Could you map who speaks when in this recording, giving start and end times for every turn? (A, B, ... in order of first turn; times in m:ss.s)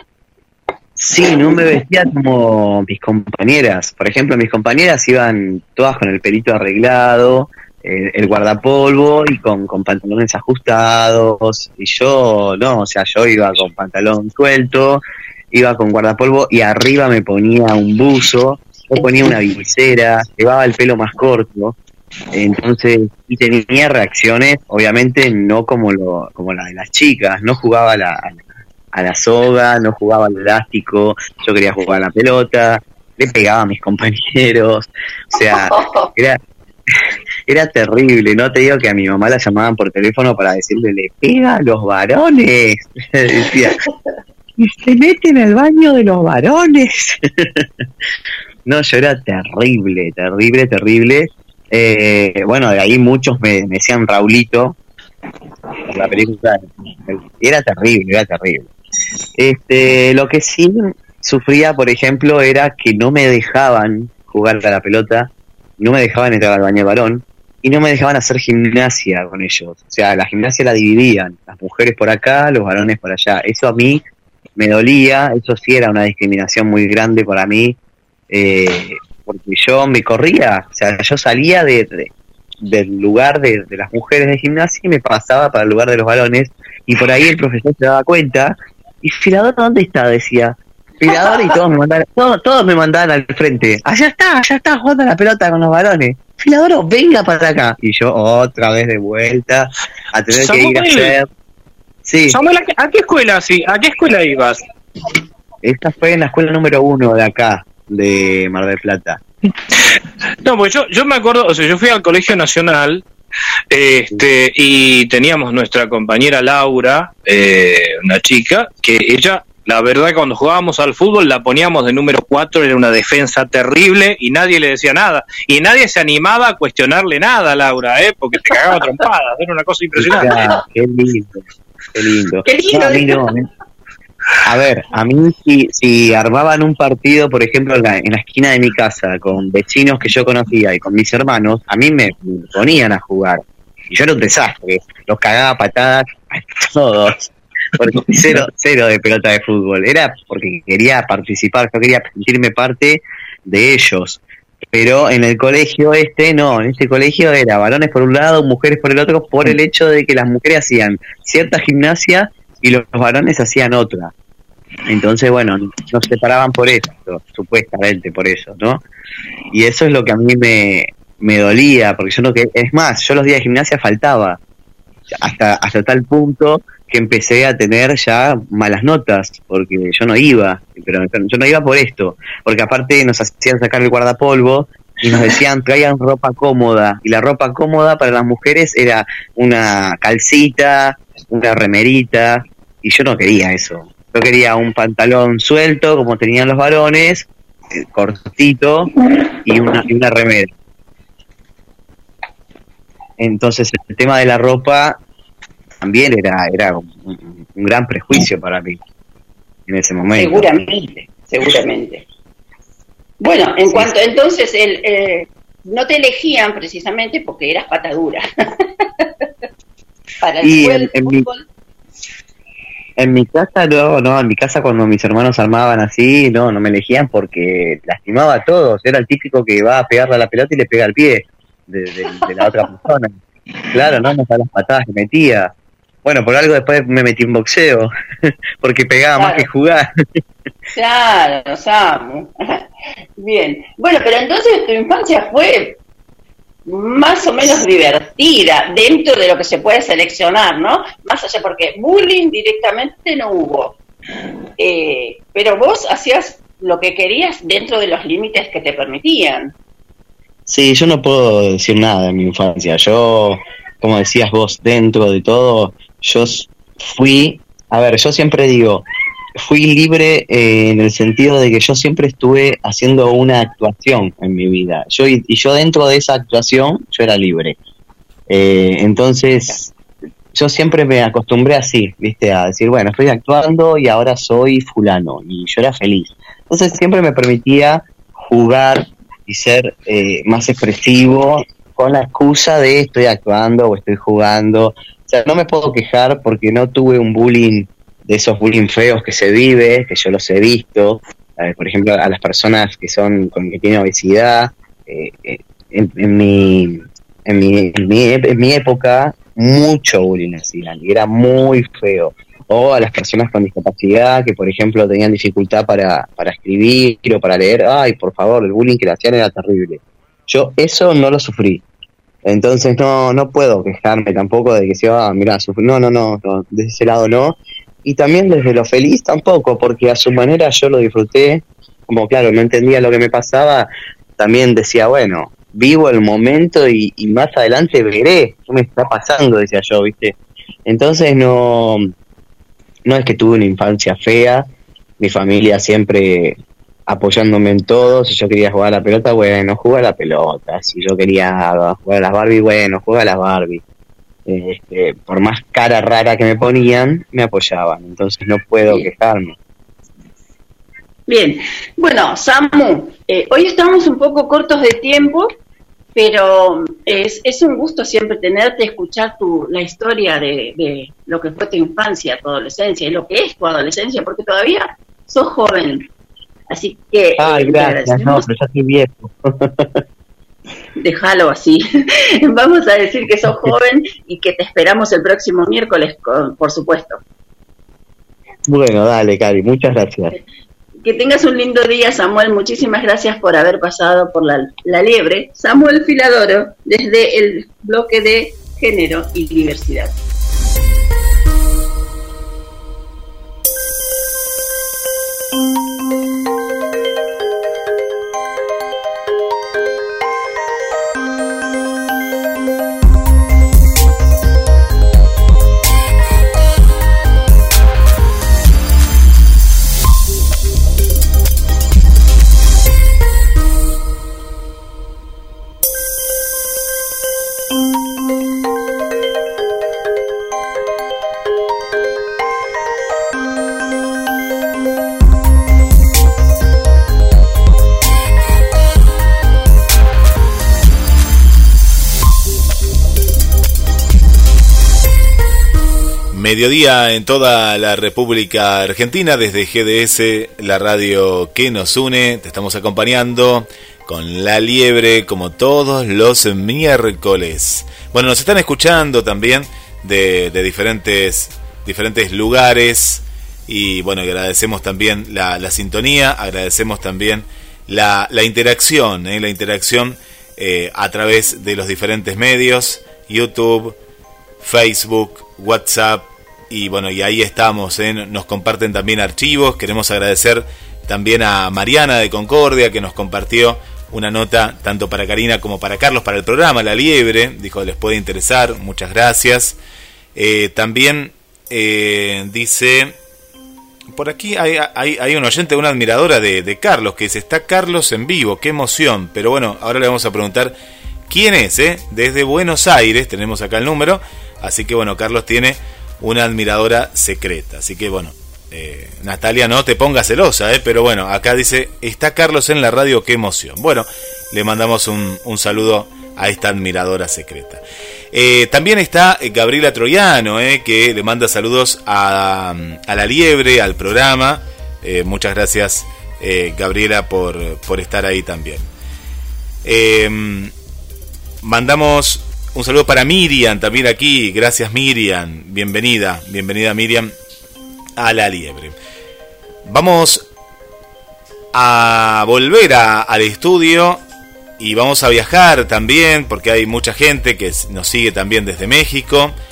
0:01.0-0:21.8 A
0:22.3-0:36.4 A
0:35.3-0:36.1 B
0:37.5-0:43.8 A
0:44.6-0:47.6 A
0:48.6-0:54.8 A
0:55.9-0:58.7 A
0:59.4-1:14.0 A
1:14.6-1:17.8 A
1:18.3-1:22.1 A
1:22.6-1:41.3 A
1:40.3-1:41.2 C
1:42.0-1:42.4 A
1:42.3-1:44.6 C
1:45.6-1:49.2 A
1:50.4-1:53.0 C
1:53.7-2:10.3 C
2:10.0-2:11.4 A
2:11.9-2:13.5 A
2:12.4-2:13.3 B
2:14.4-2:34.2 A
2:34.7-2:44.1 A
2:44.8-2:48.8 A
2:49.5-2:54.4 A
2:55.2-3:18.9 A
3:19.4-3:20.5 A
3:23.2-3:25.0 A
3:25.8-3:28.8 A
3:29.7-3:30.7 A
3:30.2-3:32.0 B
3:33.2-3:38.6 B
3:33.7-3:33.9 A
3:40.2-3:41.4 B
3:40.4-3:41.3 A
3:43.0-3:53.2 A
3:53.7-3:55.5 A
3:56.0-3:57.9 A
3:58.6-4:00.0 A
3:59.2-3:59.5 B
4:00.7-4:02.6 B
4:03.2-4:05.8 B
4:06.7-4:13.8 B
4:14.6-4:19.5 B
4:20.5-4:28.8 A
4:29.4-4:37.6 A
4:38.3-4:39.7 A
4:40.3-5:21.6 A
5:22.2-5:41.9 A
5:42.8-5:44.4 A
5:45.0-5:53.6 A
5:54.3-5:59.4 A
6:01.1-6:05.3 B
6:06.0-6:15.8 B
6:16.5-6:18.3 B
6:17.2-6:19.7 A
6:20.8-6:21.6 B
6:22.2-6:27.0 B
6:28.5-6:30.1 A
6:30.8-6:39.9 B
7:26.1-7:53.8 D
7:54.4-8:09.6 D
8:10.1-8:12.9 D
8:13.9-8:20.6 D
8:21.1-8:48.6 D
8:49.6-8:50.5 D
8:51.4-8:57.1 D
8:58.0-8:58.7 D
8:59.6-9:00.2 D
9:01.5-9:04.0 D
9:04.6-9:09.3 D